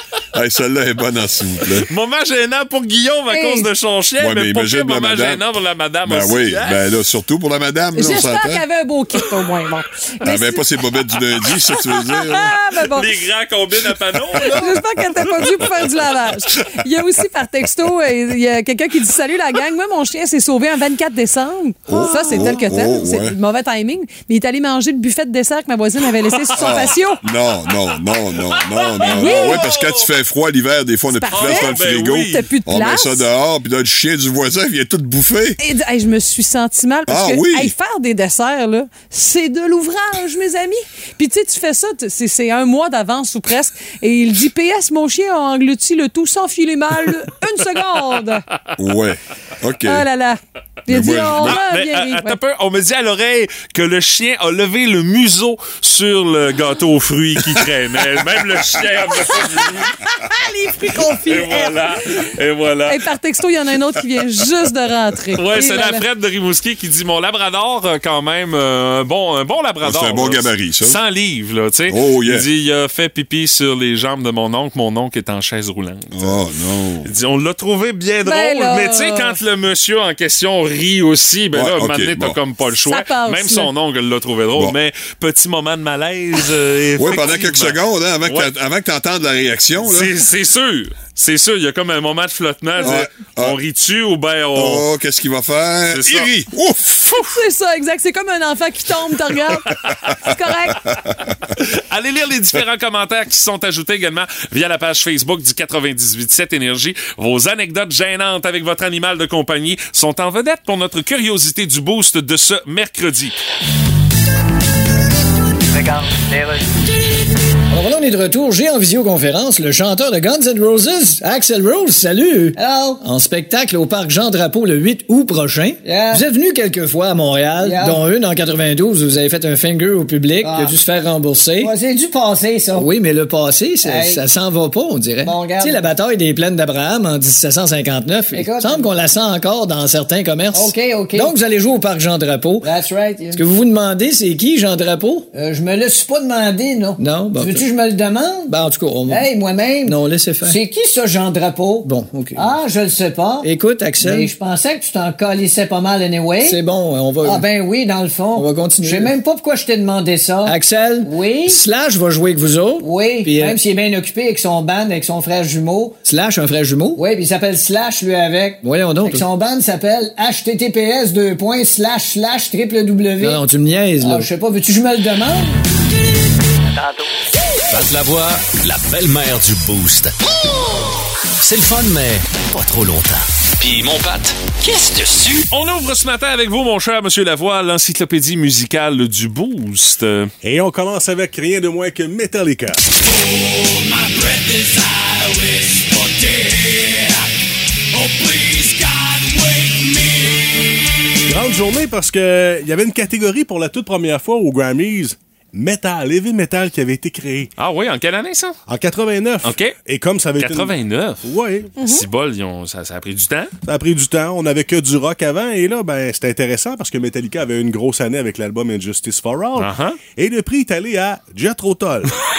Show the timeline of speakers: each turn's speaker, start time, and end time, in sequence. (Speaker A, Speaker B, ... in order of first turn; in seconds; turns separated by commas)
Speaker A: 0.3-1.9, Speaker B: 1.7-6.8, Speaker C: 3.3-3.7, Speaker A: 4.2-5.5, Speaker A: 6.0-8.6, Speaker C: 7.9-10.7, Speaker A: 10.2-12.6, Speaker C: 12.2-13.2, Speaker B: 12.3-14.8, Speaker C: 14.4-27.2, Speaker A: 14.8-15.7, Speaker A: 16.6-16.8, Speaker A: 21.9-23.4, Speaker B: 21.9-23.0, Speaker B: 26.4-27.0, Speaker A: 26.6-35.6, Speaker B: 28.2-30.1, Speaker C: 29.0-29.7, Speaker C: 31.1-33.3, Speaker B: 31.3-32.5, Speaker C: 35.6-48.5, Speaker A: 37.1-37.7, Speaker A: 48.8-50.1, Speaker C: 49.8-52.4, Speaker A: 50.9-51.6, Speaker B: 51.4-60.0, Speaker C: 59.3-62.3, Speaker B: 61.2-63.0, Speaker C: 62.9-66.0, Speaker B: 65.4-76.4, Speaker A: 69.8-71.0, Speaker A: 71.9-72.5, Speaker A: 76.1-77.1, Speaker B: 77.0-88.5, Speaker C: 78.2-79.4, Speaker A: 81.5-82.4, Speaker C: 82.8-83.7, Speaker A: 87.0-90.1, Speaker B: 89.8-94.9, Speaker A: 92.8-93.6, Speaker A: 94.5-97.3, Speaker B: 95.9-96.3, Speaker C: 97.1-100.9, Speaker B: 99.6-100.0, Speaker A: 100.1-101.3, Speaker B: 101.5-113.3, Speaker D: 115.7-116.6, Speaker E: 117.7-131.7, Speaker D: 122.5-123.0, Speaker D: 125.8-126.2, Speaker D: 127.6-128.0, Speaker D: 130.4-130.8, Speaker D: 131.6-132.9, Speaker E: 132.7-142.7, Speaker D: 133.8-134.2, Speaker D: 135.2-135.8, Speaker D: 138.3-138.9, Speaker D: 140.5-141.3, Speaker D: 142.6-143.4, Speaker E: 143.3-145.3, Speaker D: 145.3-148.6, Speaker E: 147.0-147.7, Speaker E: 148.5-149.3, Speaker D: 149.1-153.5, Speaker E: 149.8-150.6, Speaker E: 151.8-152.6, Speaker E: 153.4-154.3, Speaker D: 154.0-156.6, Speaker E: 156.4-157.4, Speaker D: 157.2-161.6, Speaker E: 158.3-159.1, Speaker E: 160.4-163.6, Speaker D: 162.8-166.0, Speaker E: 166.1-167.0, Speaker D: 166.9-173.4, Speaker E: 168.6-169.2, Speaker E: 173.2-174.3, Speaker D: 174.0-175.5, Speaker D: 176.7-177.0, Speaker F: 177.7-180.4, Speaker F: 181.4-185.4, Speaker B: 185.5-190.3, Speaker G: 190.4-192.8, Speaker F: 193.0-197.3, Speaker F: 197.9-200.4, Speaker G: 201.2-207.5, Speaker B: 207.6-208.6, Speaker G: 208.7-211.7, Speaker B: 209.4-209.8, Speaker B: 210.4-213.5, Speaker C: 211.8-212.1, Speaker G: 213.6-222.1, Speaker B: 219.6-220.0